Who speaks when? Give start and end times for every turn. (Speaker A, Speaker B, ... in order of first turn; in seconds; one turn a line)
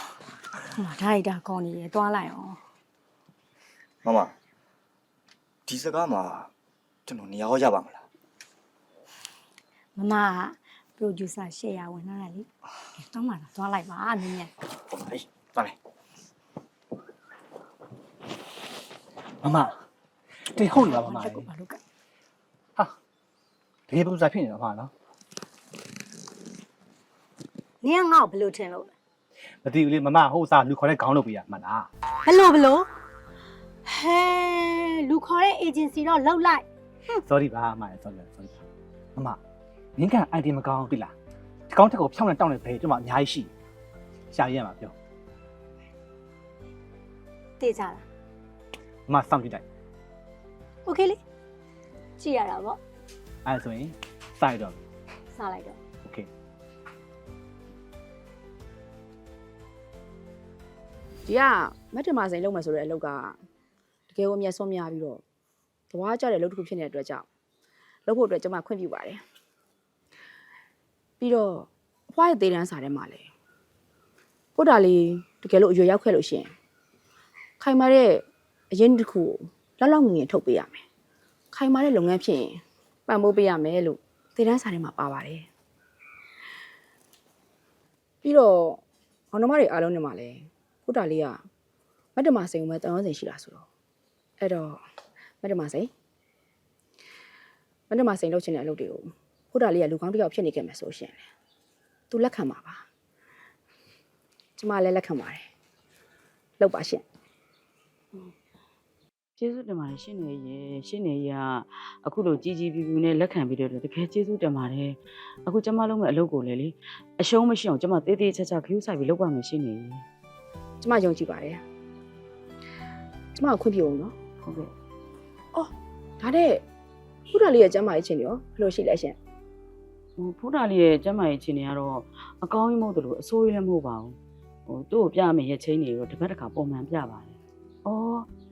Speaker A: 0.8-2.6
Speaker B: 4.0-4.3
Speaker B: 5.7-6.5
Speaker B: 7.0-8.0
Speaker A: 10.0-12.5
Speaker A: 13.0-14.5
Speaker B: 14.9-15.8
Speaker C: 19.4-19.8
Speaker C: 20.5-21.5
Speaker A: 20.7-21.8
Speaker C: 23.9-24.9
Speaker A: 27.8-28.9
Speaker C: 29.6-31.9
Speaker A: 32.2-32.9
Speaker A: 33.8-36.6
Speaker C: 37.3-38.6
Speaker C: 40.0-41.1
Speaker C: 41.7-43.5
Speaker C: 44.3-44.9
Speaker A: 47.6-48.0
Speaker C: 49.1-49.6
Speaker A: 50.8-51.2
Speaker A: 52.2-52.8
Speaker C: 53.5-54.8
Speaker A: 55.3-55.8
Speaker D: 61.2-63.4
Speaker D: 64.1-65.2
Speaker D: 65.9-67.3
Speaker D: 68.0-69.2
Speaker D: 71.2-73.3
Speaker D: 74.5-76.5
Speaker D: 77.6-80.8
Speaker D: 81.5-85.5
Speaker D: 88.2-91.5
Speaker D: 92.1-93.7
Speaker D: 94.4-94.8
Speaker D: 95.4-95.9
Speaker D: 97.9-101.3
Speaker D: 102.1-102.8
Speaker D: 104.6-105.5
Speaker D: 106.6-107.0
Speaker E: 109.4-120.0
Speaker D: 120.8-121.6
Speaker D: 123.3-124.1
Speaker E: 124.4-124.7
Speaker D: 125.5-126.6
Speaker D: 127.3-129.2
Speaker E: 130.2-138.3